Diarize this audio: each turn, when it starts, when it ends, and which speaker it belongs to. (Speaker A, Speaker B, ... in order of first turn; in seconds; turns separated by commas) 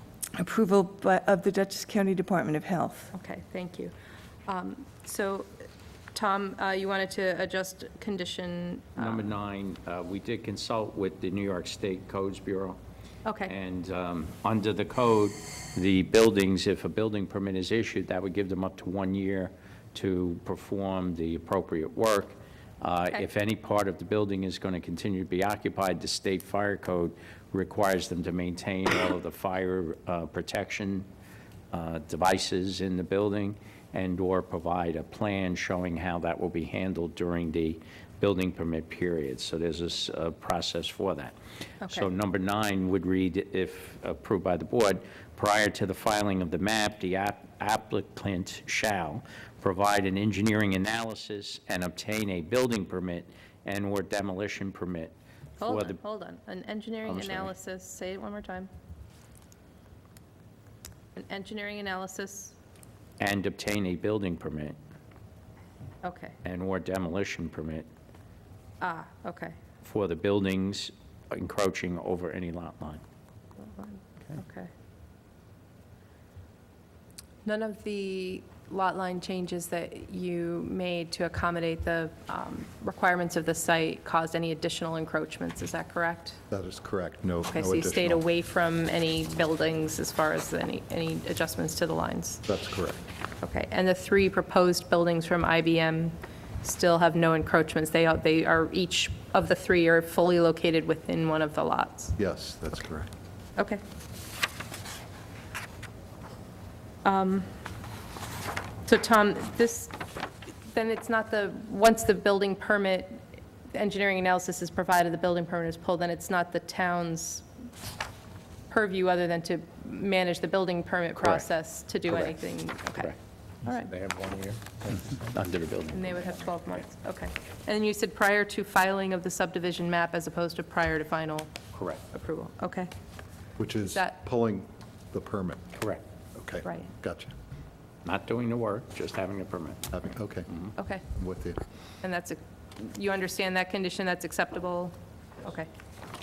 Speaker A: 0.3-3.1, Speaker B: 3.1-3.9, Speaker B: 4.5-5.5, Speaker B: 6.1-9.3, Speaker C: 9.0-12.8, Speaker B: 13.2-13.5, Speaker C: 13.4-31.1, Speaker C: 31.7-41.3, Speaker B: 41.8-42.1, Speaker C: 41.8-56.0, Speaker B: 55.6-58.7, Speaker C: 57.0-57.5, Speaker B: 61.1-62.5, Speaker C: 63.2-64.8, Speaker B: 66.0-66.4, Speaker C: 66.4-67.9, Speaker B: 68.8-69.6, Speaker C: 69.8-73.0, Speaker B: 73.6-74.7, Speaker B: 77.4-86.4, Speaker D: 86.5-88.2, Speaker B: 87.5-92.4, Speaker D: 92.5-93.0, Speaker B: 93.4-102.1, Speaker D: 102.2-103.1, Speaker B: 107.0-107.5, Speaker B: 108.8-109.9, Speaker B: 110.7-113.2, Speaker B: 113.7-117.5, Speaker B: 118.7-123.1, Speaker C: 121.2-123.2, Speaker B: 123.6-123.9, Speaker C: 123.7-126.4, Speaker B: 125.9-131.5, Speaker C: 131.7-132.0, Speaker B: 132.1-132.9, Speaker D: 133.6-135.6, Speaker B: 133.8-134.2, Speaker C: 135.8-136.0, Speaker D: 136.3-137.3, Speaker C: 138.0-139.9, Speaker D: 139.9-140.5, Speaker B: 140.8-141.0, Speaker D: 141.1-141.6, Speaker B: 142.0-145.7